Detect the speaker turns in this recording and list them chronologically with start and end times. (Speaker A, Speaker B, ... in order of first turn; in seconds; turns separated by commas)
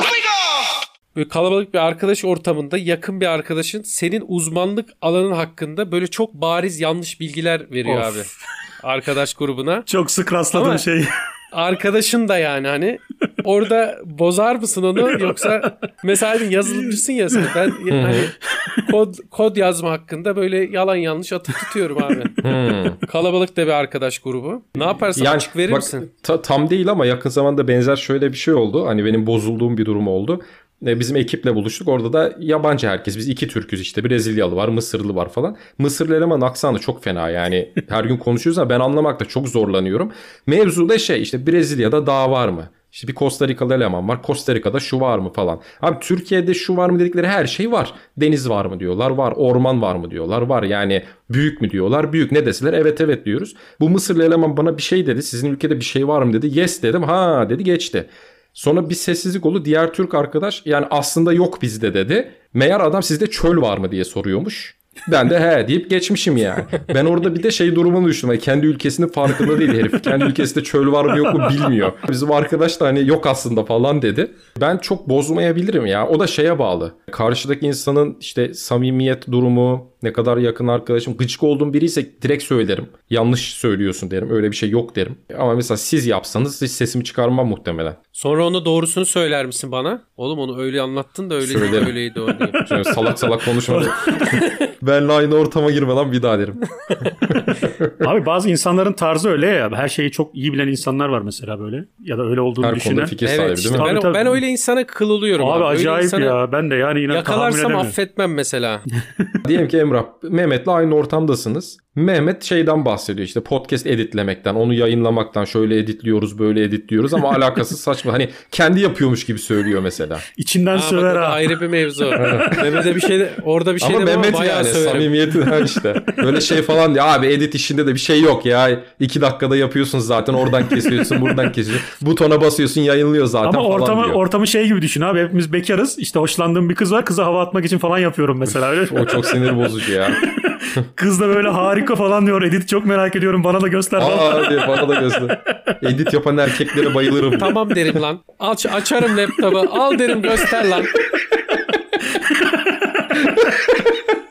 Speaker A: 1.1-8.3, Speaker B: 7.8-8.3, Speaker A: 8.8-9.9, Speaker B: 9.9-11.1, Speaker A: 10.5-10.8, Speaker A: 11.5-22.4, Speaker B: 15.1-15.7, Speaker B: 16.6-17.6, Speaker C: 17.9-18.3, Speaker C: 22.4-23.0, Speaker A: 23.0-26.1, Speaker C: 25.1-88.0, Speaker A: 88.1-92.6, Speaker C: 91.4-92.0, Speaker C: 92.6-98.0, Speaker B: 93.7-94.4, Speaker B: 98.0-103.2, Speaker C: 102.6-103.9, Speaker A: 103.2-106.4, Speaker B: 103.8-104.4, Speaker B: 105.4-108.0, Speaker A: 107.1-108.8, Speaker C: 109.5-120.2, Speaker B: 120.4-121.6, Speaker A: 120.7-125.1, Speaker C: 122.2-122.7, Speaker C: 123.8-134.2, Speaker B: 130.7-131.3, Speaker B: 133.4-145.3, Speaker C: 138.7-140.2, Speaker C: 144.0-147.6, Speaker A: 147.4-150.9, Speaker B: 152.2-153.4, Speaker C: 153.2-153.9